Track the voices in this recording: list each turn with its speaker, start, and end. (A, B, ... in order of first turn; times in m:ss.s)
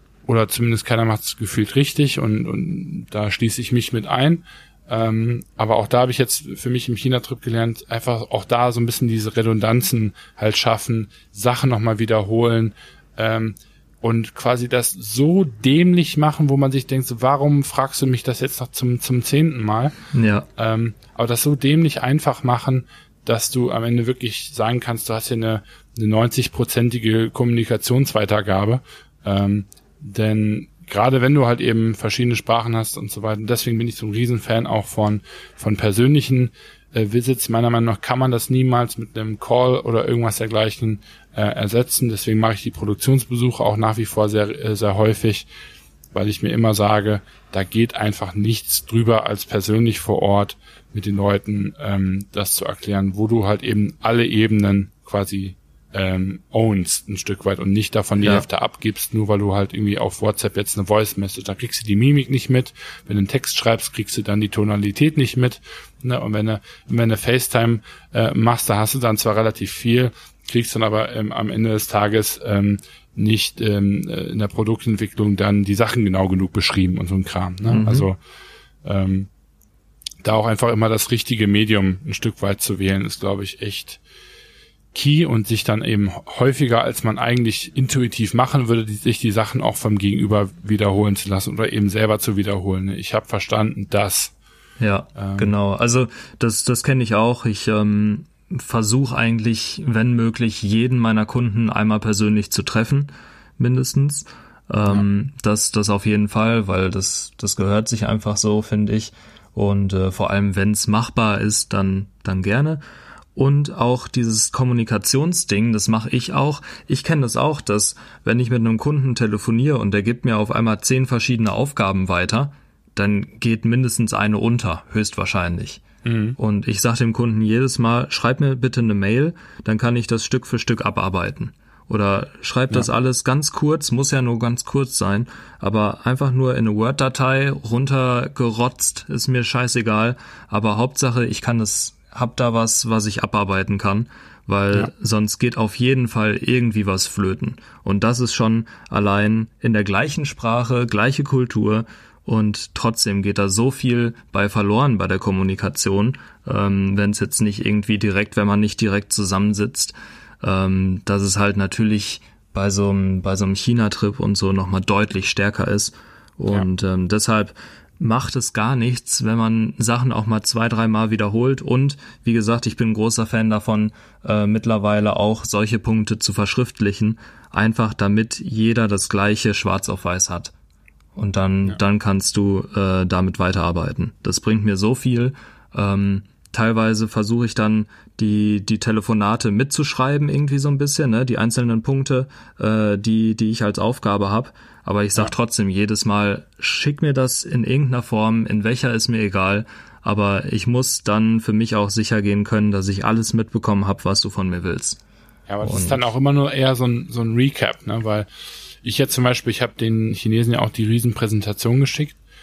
0:00.2-0:19.9 A
0:20.1-0:20.4 B
0:20.6-0:45.5 A
0:46.1-1:18.2 A
1:17.7-1:18.0 B
1:18.8-1:19.3 A
1:20.2-1:24.0 A
1:24.9-1:34.3 A
1:34.8-1:52.8 B
1:35.2-1:35.5 A
1:53.3-2:05.8 B
2:06.0-2:06.4 A
2:06.4-3:00.5 B
3:01.1-3:25.0 B
3:25.5-3:28.3 A
3:25.6-3:26.0 B
3:28.8-3:32.2 A